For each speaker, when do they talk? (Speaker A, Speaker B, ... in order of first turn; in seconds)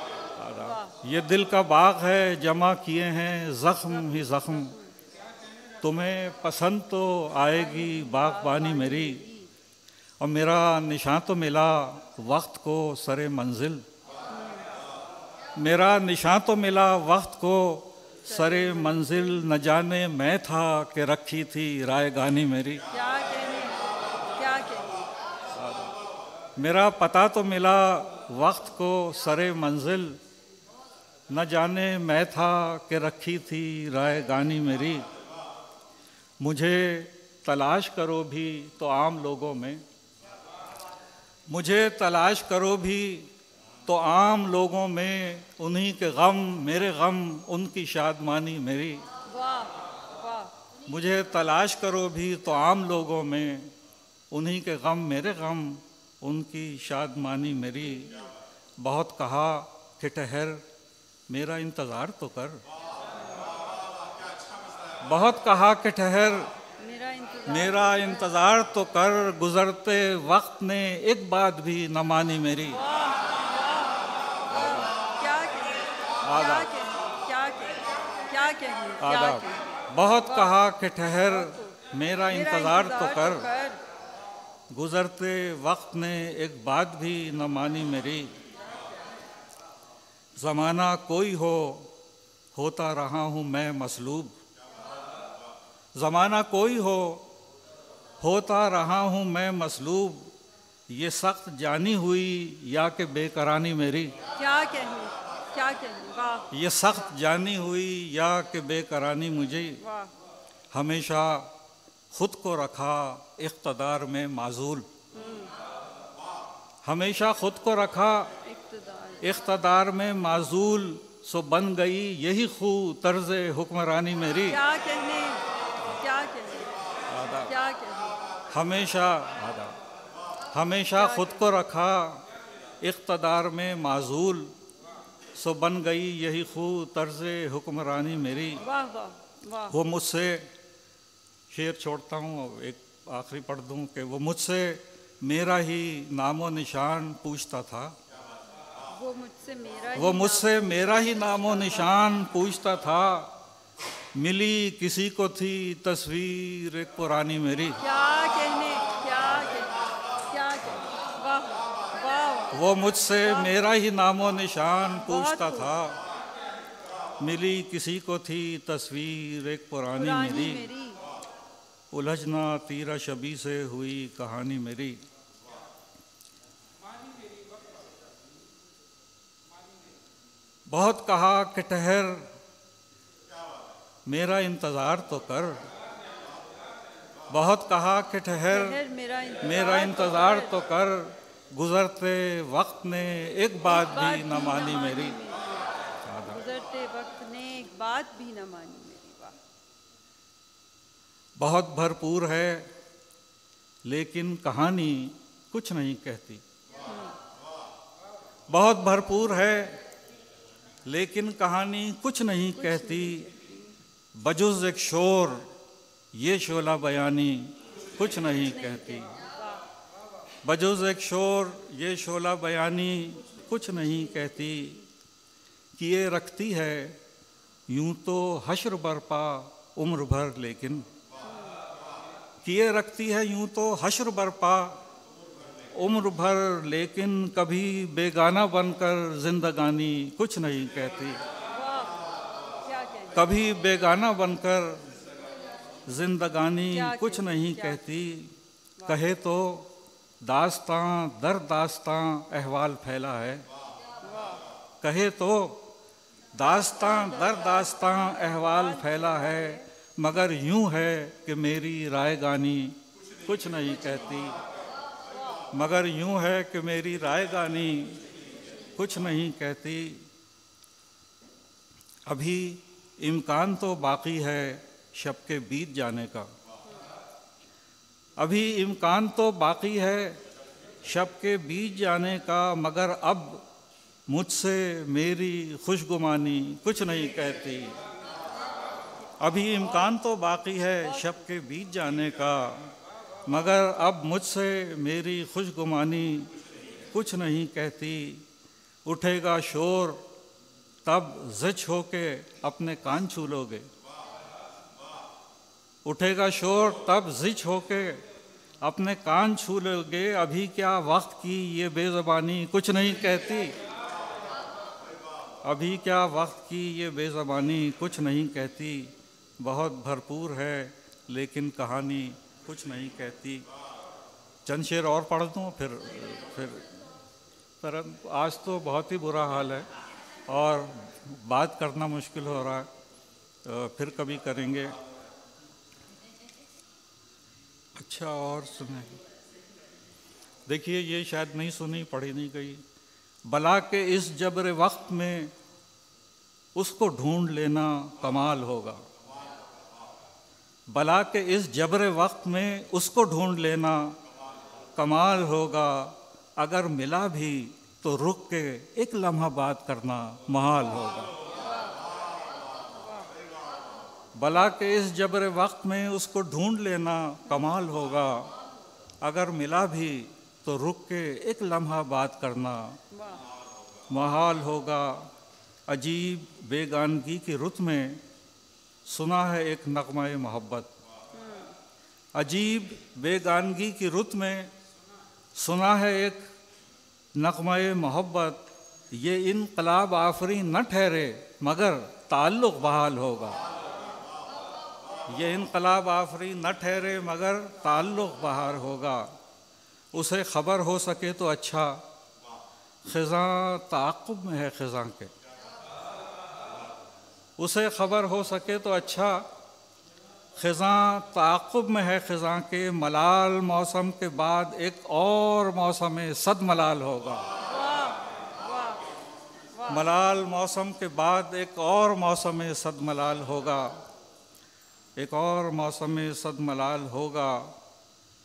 Speaker A: 0.3-4.7, 5.8-9.2, 10.2-13.8, 15.6-22.8, 25.5-25.9, 26.6-30.2, 31.3-35.0, 36.4-39.8, 41.5-43.3, 43.9-49.0, 50.9-53.7, 54.3-58.1, 58.8-60.6, 61.3-62.6, 65.0-66.5, 67.5-72.8, 74.5-74.9, 76.2-76.7, 79.0-83.5, 84.7-88.3, 90.4-91.9, 92.5-94.3, 95.9-97.3, 98.2-100.3, 100.9-104.1, 106.5-109.8, 110.7-111.5, 112.1-114.9, 116.8-118.3, 119.2-124.6, 127.1-127.5, 128.5-129.7, 130.5-132.2, 132.8-134.5, 135.4-138.6, 139.7-140.5, 141.5-147.9, 149.9-153.3, 154.1-157.8, 162.5-166.0, 167.2-170.7, 171.9-175.0, 180.7-182.3, 184.1-185.7, 187.3-188.8, 189.4-195.2, 196.0-196.4, 201.4-202.7, 203.8-206.4, 208.5-209.8, 210.8-213.2, 214.2-215.5, 216.1-219.1, 220.4-224.8, 225.8-227.0, 227.7-230.8, 232.4-234.8, 235.7-241.2, 243.1-244.8, 245.9-248.3, 248.8-253.4, 254.8-255.7, 256.3-264.4, 265.5-268.0, 268.8-270.0, 272.1-276.3, 278.2-280.2, 280.8-283.4, 284.1-287.8, 289.2-292.7, 293.3-296.3, 296.9-298.2, 298.8-300.0, 300.8-303.7, 305.8-308.0, 308.6-313.5, 315.4-323.4, 324.4-326.7, 327.6-329.7, 330.3-332.7, 333.4-334.7, 337.8-338.9, 340.4-342.6, 343.2-345.3, 346.5-348.8, 350.7-354.0, 354.8-361.1, 364.1-368.3, 369.0-372.8, 373.9-375.1, 375.7-378.0, 378.9-380.7, 382.1-384.5, 385.4-386.2, 387.1-393.4, 395.1-399.1, 399.9-401.8, 402.9-405.1, 407.4-409.3, 410.4-417.3, 419.7-423.8, 424.9-427.5
Speaker B: 0.6-0.9, 3.9-4.8, 7.5-9.5, 14.3-14.6, 18.3-19.4, 22.9-25.0, 49.3-50.5, 66.8-68.3, 72.7-79.7, 80.2-80.6, 81.3-81.8, 82.3-83.8, 104.4-106.5, 109.8-110.1, 115.1-115.5, 118.4-119.2, 124.5-125.4, 126.0-126.7, 127.5-128.2, 130.9-131.4, 138.6-139.7, 148.9-152.1, 157.8-162.5, 163.2-163.6, 165.0-165.7, 169.9-171.0, 188.5-190.5, 193.6-195.7, 196.3-199.3, 206.8-207.1, 212.6-213.6, 218.4-219.6, 231.2-231.6, 241.5-242.0, 242.6-243.3, 246.7-247.8, 248.8-249.1, 254.0-254.4, 256.8-259.6, 361.4-361.8, 362.8-363.1, 372.9-373.2, 381.1-381.5, 417.4-418.8, 419.6-419.8